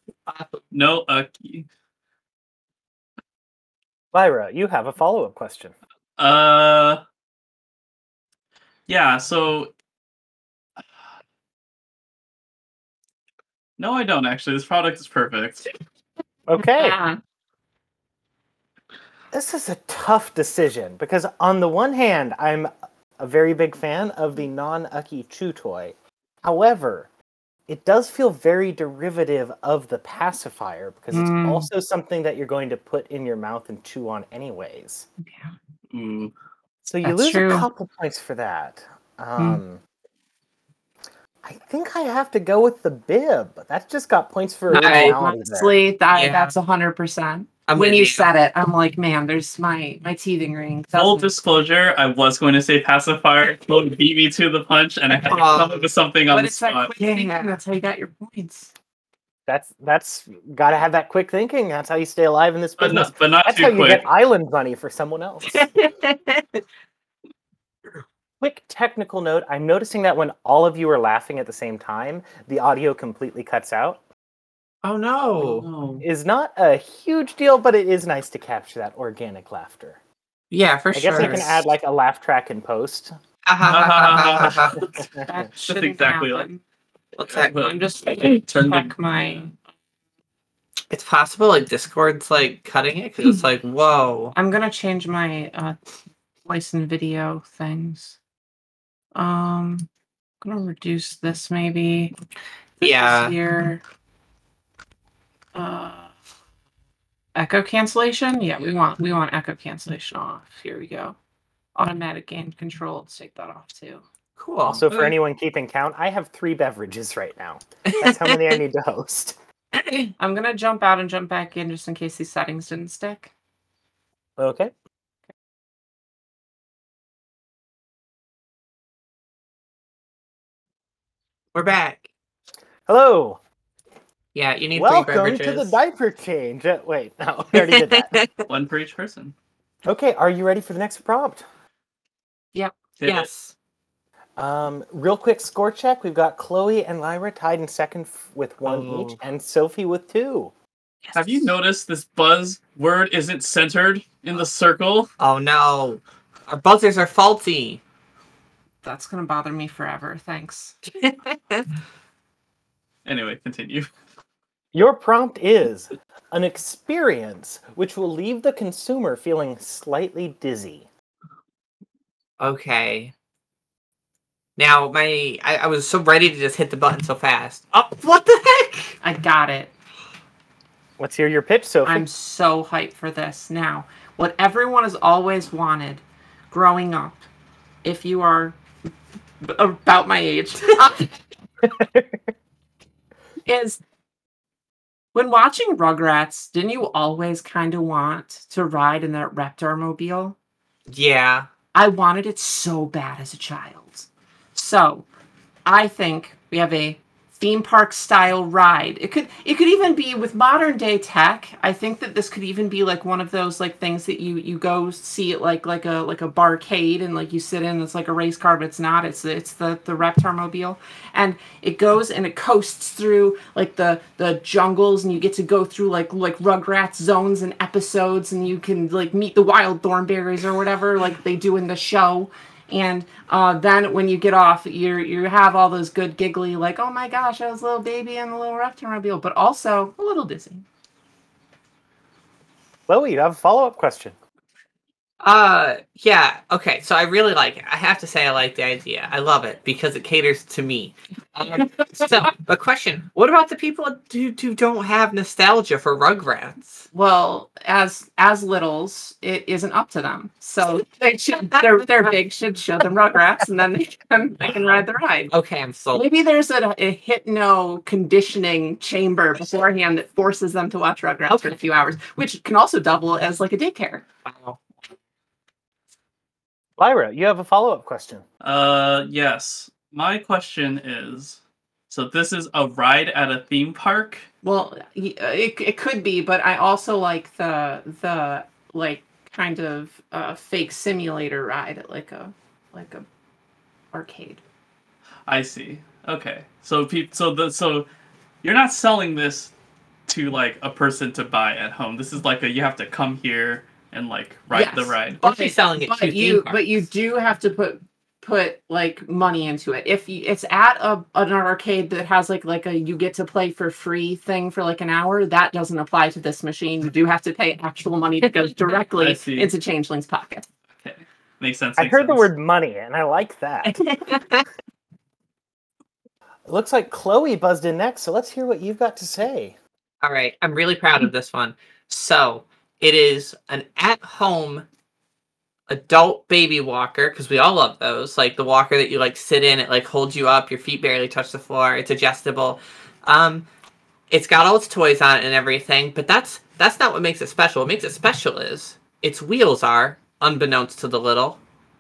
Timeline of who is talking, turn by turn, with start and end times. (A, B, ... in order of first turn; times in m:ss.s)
0:00.3-0:00.6 A
0:00.7-0:01.7 B
0:04.1-0:05.7 C
0:06.2-0:07.0 B
0:08.9-0:09.7 B
0:13.8-0:15.7 B
0:16.5-0:17.0 C
0:16.6-0:17.2 D
0:19.3-0:27.1 C
0:27.7-0:35.1 C
0:31.1-0:31.7 D
0:35.9-0:36.3 B
0:36.8-0:39.8 C
0:37.0-0:37.7 D
0:41.4-0:45.8 C
0:44.7-0:45.2 A
0:44.7-0:51.3 D
0:46.1-0:46.5 A
0:47.7-0:48.3 A
0:50.9-0:56.9 B
0:55.2-0:55.9 A
0:56.3-0:58.7 D
0:57.0-0:57.6 A
0:59.5-1:05.7 C
1:02.8-1:04.0 B
1:05.5-1:06.6 A
1:08.4-1:14.0 C
1:14.8-1:15.7 A
1:15.4-1:16.0 B
1:16.0-1:20.0 C
1:20.5-1:21.6 A
1:20.9-1:23.2 C
1:23.4-1:24.8 A
1:23.6-1:24.9 B
1:24.8-1:25.3 C
1:25.3-1:26.6 D
1:25.6-1:26.5 B
1:27.2-1:27.5 A
1:27.3-1:28.9 B
1:27.4-1:29.6 D
1:30.9-1:34.3 A
1:34.4-1:35.8 D
1:36.4-1:38.2 D
1:39.1-1:39.9 D
1:40.4-1:42.1 D
1:42.8-1:43.8 D
1:42.8-1:43.4 A
1:45.5-1:46.1 D
1:47.4-1:51.2 D
1:51.8-1:54.0 D
1:54.4-1:54.9 A
1:54.6-1:59.4 C
1:57.9-1:58.5 A
1:59.7-2:00.1 A
2:00.2-2:03.3 D
2:04.4-2:04.7 C
2:11.5-2:12.1 A
2:12.9-2:13.4 C
2:14.3-2:15.7 A
2:14.7-2:18.2 C
2:17.5-2:18.4 A
2:18.5-2:19.3 B
2:19.8-2:21.4 C
2:23.0-2:23.3 B
2:23.0-2:23.5 A
2:24.4-2:30.5 C
2:28.6-2:29.2 A
2:31.1-2:35.1 B
2:35.2-2:37.8 A
2:38.8-2:40.8 D
2:40.9-2:41.7 A
2:43.0-2:43.9 B
2:44.7-2:50.9 C
2:52.4-2:53.1 A
2:54.6-2:59.0 A
2:59.0-2:59.7 D
3:01.0-3:02.0 C
3:01.8-3:07.2 D
3:07.8-3:08.6 D
3:09.4-3:11.1 D
3:11.7-3:12.2 C
3:13.4-3:13.8 D
3:15.1-3:20.4 D
3:20.9-3:21.5 A
3:21.7-3:25.0 D
3:25.6-4:00.6 D
4:02.9-4:04.2 C
4:05.2-4:16.9 A
4:16.9-4:25.3 D
4:24.5-4:24.8 A
4:25.3-4:26.0 A
4:25.9-4:34.0 D
4:31.3-4:31.5 A
4:34.2-4:34.6 A
4:36.8-4:38.2 C
4:38.4-4:41.4 B
4:41.9-4:44.2 B
4:44.4-4:53.1 D
4:53.9-4:54.4 D
4:55.3-4:57.8 B
4:58.4-4:59.5 B
5:00.1-5:05.2 B
5:04.5-5:20.5 D
5:05.2-5:06.6 A
5:19.0-5:19.5 B
5:20.8-5:22.3 B
5:21.8-5:23.8 C
5:24.0-5:24.4 A
5:26.5-5:29.5 C
5:30.0-5:34.6 A
5:35.7-5:43.5 A
5:44.1-5:51.4 A